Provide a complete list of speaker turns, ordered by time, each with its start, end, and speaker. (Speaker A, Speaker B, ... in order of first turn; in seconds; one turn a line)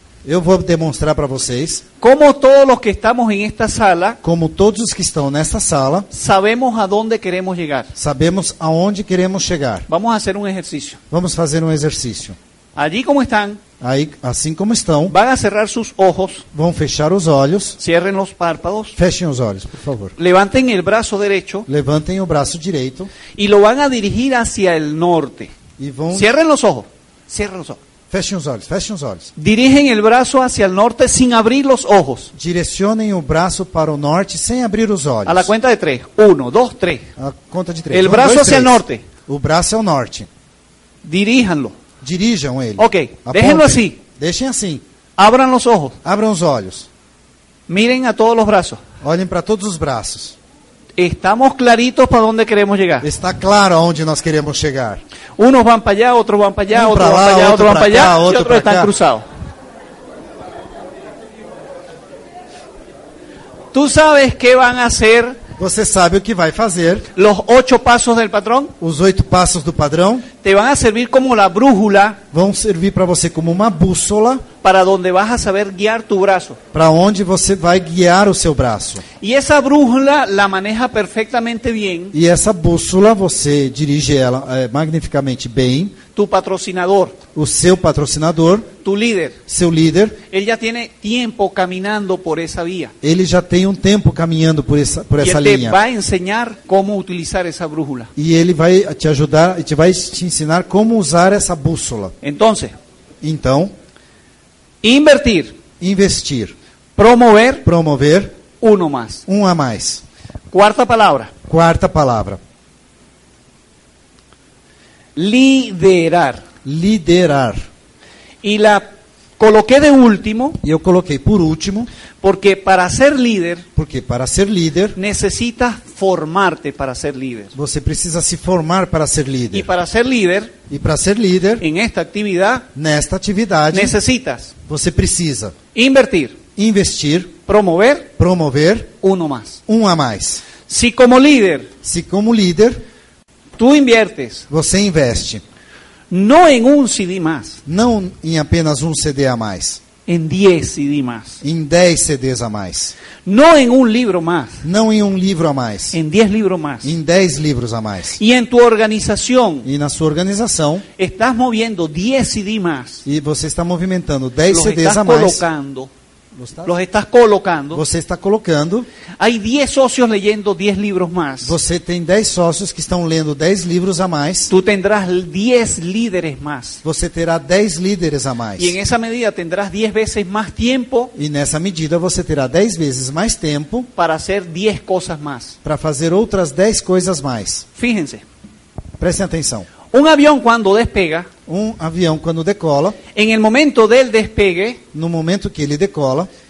Speaker A: 0.2-1.8
Speaker B: 2.0-4.2
Speaker A: 4.2-6.1
Speaker B: 6.1-7.9
Speaker A: 8.0-9.9
Speaker B: 9.9-11.0
Speaker A: 11.1-12.4
Speaker B: 12.8-13.6
Speaker A: 13.8-15.1
Speaker B: 15.1-16.4
Speaker A: 16.5-17.8
Speaker B: 17.8-18.9
Speaker A: 18.9-20.1
Speaker B: 20.2-21.7
Speaker A: 21.7-23.1
Speaker B: 23.3-25.5
Speaker A: 25.8-26.3
Speaker B: 26.1-27.8
Speaker A: 28.1-29.3
Speaker B: 29.4-32.3
Speaker A: 32.3-35.5
Speaker B: 35.2-37.1
Speaker A: 37.2-40.3
Speaker B: 37.9-39.0
Speaker B: 41.0-41.8
Speaker A: 42.0-44.8
Speaker B: 42.8-44.0
Speaker B: 45.2-46.0
Speaker A: 46.0-46.9
Speaker B: 47.7-48.8
Speaker A: 49.0-50.4
Speaker B: 51.0-53.1
Speaker A: 53.0-55.0
Speaker B: 55.4-59.2
Speaker A: 56.7-58.9
Speaker B: 63.7-65.4
Speaker A: 65.6-67.1
Speaker B: 67.1-68.7
Speaker A: 68.8-70.3
Speaker B: 70.4-72.2
Speaker A: 72.3-74.5
Speaker B: 74.6-76.6
Speaker A: 76.7-79.0
Speaker B: 79.2-82.1
Speaker A: 82.1-86.0
Speaker B: 86.1-87.2
Speaker A: 87.3-88.7
Speaker B: 88.8-89.4
Speaker A: 89.5-90.2
Speaker B: 90.3-92.9
Speaker A: 93.0-95.8
Speaker B: 95.2-98.1
Speaker A: 98.2-102.1
Speaker B: 102.2-102.7
Speaker A: 103.2-103.7
Speaker B: 104.8-105.6
Speaker A: 105.8-106.5
Speaker B: 107.0-107.7
Speaker A: 107.6-108.4
Speaker B: 108.6-109.2
Speaker A: 109.3-110.0
Speaker B: 110.5-111.3
Speaker A: 111.5-112.4
Speaker B: 115.2-116.4
Speaker A: 116.6-117.7
Speaker B: 118.4-120.6
Speaker A: 120.6-121.9
Speaker B: 122.2-123.6
Speaker A: 123.7-125.0
Speaker B: 124.9-127.5
Speaker A: 127.5-129.7
Speaker B: 129.5-130.6
Speaker A: 130.7-131.6
Speaker B: 131.6-132.7
Speaker A: 132.7-134.0
Speaker B: 133.7-134.5
Speaker A: 134.7-135.6
Speaker B: 135.7-136.4
Speaker A: 136.6-137.4
Speaker B: 137.4-138.1
Speaker A: 138.1-138.9
Speaker B: 139.0-139.6
Speaker A: 139.7-140.4
Speaker B: 140.7-141.7
Speaker A: 141.8-142.8
Speaker B: 143.6-144.5
Speaker A: 144.5-145.4
Speaker B: 146.1-147.6
Speaker A: 147.7-149.8
Speaker B: 150.1-151.4
Speaker A: 151.4-152.9
Speaker B: 153.2-154.6
Speaker A: 154.6-156.0
Speaker B: 155.9-156.9
Speaker A: 156.8-158.2
Speaker B: 158.2-159.7
Speaker A: 159.6-160.8
Speaker B: 161.0-163.0
Speaker A: 163.0-165.4
Speaker B: 164.5-165.9
Speaker A: 166.3-166.7
Speaker B: 166.6-167.8
Speaker A: 167.7-168.9
Speaker B: 169.2-171.6
Speaker A: 171.4-174.5
Speaker B: 174.5-176.8
Speaker A: 176.8-178.8
Speaker B: 178.6-181.1
Speaker A: 181.1-183.9
Speaker B: 184.0-185.6
Speaker A: 185.6-187.7
Speaker B: 187.7-188.2
Speaker A: 189.0-189.7
Speaker B: 189.9-191.3
Speaker A: 191.5-193.0
Speaker B: 193.1-194.8
Speaker A: 194.9-196.3